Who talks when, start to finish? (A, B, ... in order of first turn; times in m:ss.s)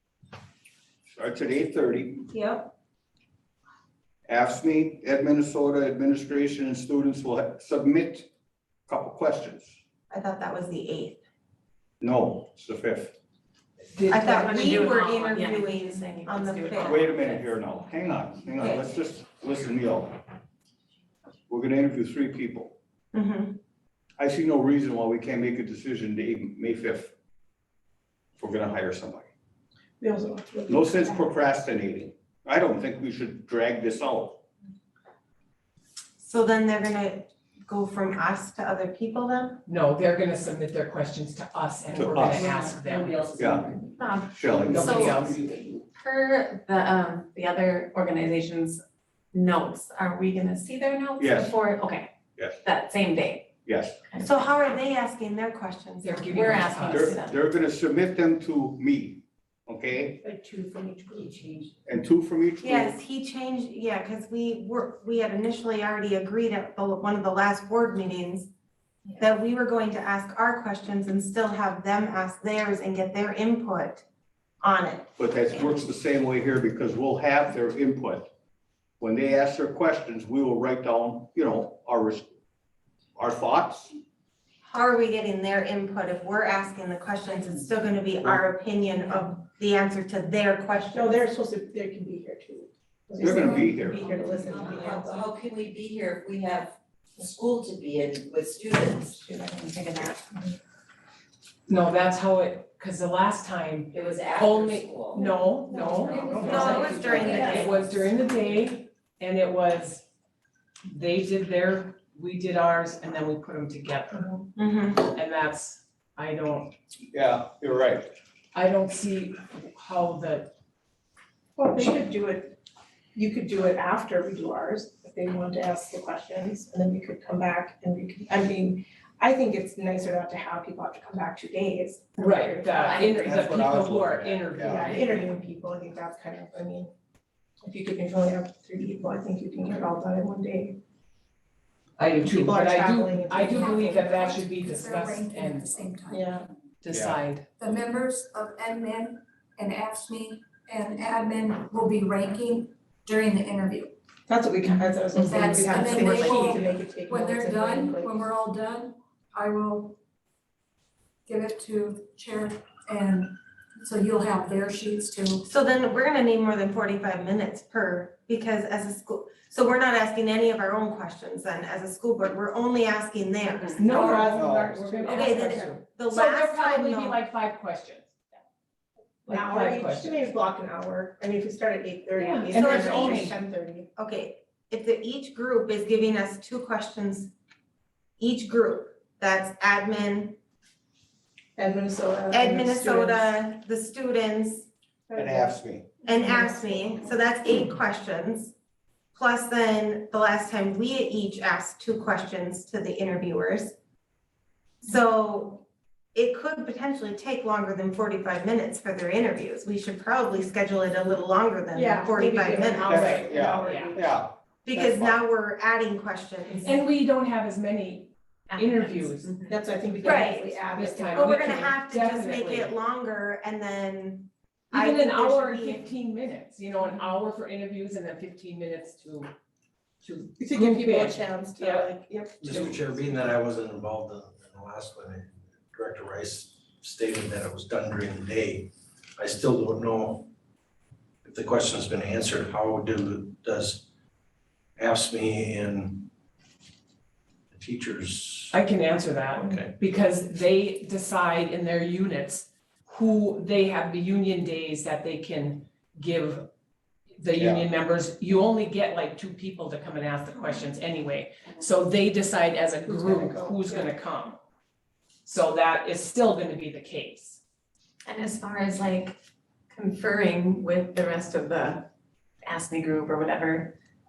0:01.1-0:02.2 A
0:02.4-0:02.6 B
0:04.3-0:08.3 A
0:08.9-0:09.7 A
0:10.1-0:11.2 C
0:12.0-0:13.1 A
0:13.9-0:14.9 D
0:14.1-0:17.0 C
0:14.5-0:17.5 E
0:16.8-0:20.2 A
0:21.5-0:22.7 A
0:23.1-0:23.6 C
0:24.2-0:27.1 A
0:28.4-0:29.2 A
0:30.0-0:31.2 B
0:30.7-0:34.4 A
0:36.2-0:39.6 C
0:39.6-0:43.4 D
0:41.9-0:42.5 A
0:42.2-0:43.9 F
0:43.4-0:43.7 A
0:44.0-0:45.1 E
0:44.3-0:45.0 A
0:44.7-0:45.4 D
0:44.7-0:45.6 F
0:45.9-0:48.8 E
0:49.3-0:52.1 E
0:51.2-0:51.6 A
0:52.6-0:53.5 E
0:53.6-0:53.9 A
0:54.1-0:54.5 E
0:54.2-0:56.5 C
0:56.0-0:57.2 D
0:56.3-0:57.3 E
0:56.9-1:00.2 A
1:00.2-1:01.7 B
1:01.8-1:03.0 A
1:02.6-1:08.5 C
1:09.2-1:14.0 C
1:14.6-1:15.1 C
1:15.2-1:18.2 A
1:19.0-1:22.3 A
1:23.2-1:23.9 A
1:24.6-1:31.3 C
1:30.9-1:35.3 B
1:33.2-1:34.1 A
1:33.9-1:39.1 F
1:39.1-1:40.4 E
1:41.7-1:50.0 D
1:43.9-1:45.3 F
1:45.2-1:47.4 B
1:46.0-1:47.7 F
1:46.3-1:47.8 C
1:50.8-1:54.4 D
1:54.6-1:55.1 C
1:55.0-1:56.7 D
1:57.1-1:58.1 A
1:58.5-2:00.5 D
2:01.6-2:02.5 B
2:03.1-2:13.1 B
2:12.2-2:15.3 D
2:12.8-2:13.4 E
2:13.1-2:15.0 A
2:14.7-2:16.9 B
2:17.6-2:20.8 B
2:22.0-2:25.9 D
2:22.2-2:24.1 B
2:23.4-2:26.4 G
2:26.1-2:26.4 B
2:26.8-2:27.5 D
2:26.9-2:27.2 A
2:27.6-2:33.9 G
2:34.3-2:38.3 B
2:35.1-2:40.0 G
2:35.5-2:36.6 E
2:41.3-2:45.4 G
2:45.4-2:54.1 C
2:53.8-2:58.1 D
2:53.8-2:55.8 B
2:54.3-2:54.7 A
2:55.0-2:57.2 C
2:59.2-3:03.9 B
2:59.3-3:00.2 D
3:02.2-3:03.3 D
3:02.5-3:03.4 C
3:03.9-3:07.3 C
3:08.2-3:10.4 C
3:11.6-3:13.3 B
3:12.3-3:14.7 C
3:15.1-3:17.3 B
3:15.2-3:15.9 A
3:16.0-3:18.5 C
3:19.1-3:23.7 C
3:24.8-3:33.1 C
3:31.7-3:34.0 B
3:32.9-3:35.2 A
3:32.9-3:34.0 D
3:34.6-3:36.8 C
3:36.6-3:39.4 D
3:38.5-3:39.6 E
3:39.5-3:41.4 B
3:40.0-3:45.9 C
3:40.7-3:42.7 D
3:44.7-3:49.3 D
3:50.0-3:52.8 D
3:50.4-3:52.5 B
3:52.4-4:00.3 H
4:01.2-4:03.8 H
4:04.8-4:06.1 H
4:07.5-4:08.6 H
4:08.5-4:16.5 D
4:09.3-4:09.8 H
4:17.2-4:24.4 D
4:17.4-4:17.7 A
4:22.8-4:23.9 B
4:25.2-4:27.4 D
4:28.0-4:29.2 E
4:29.7-4:31.9 E
4:32.4-4:33.7 E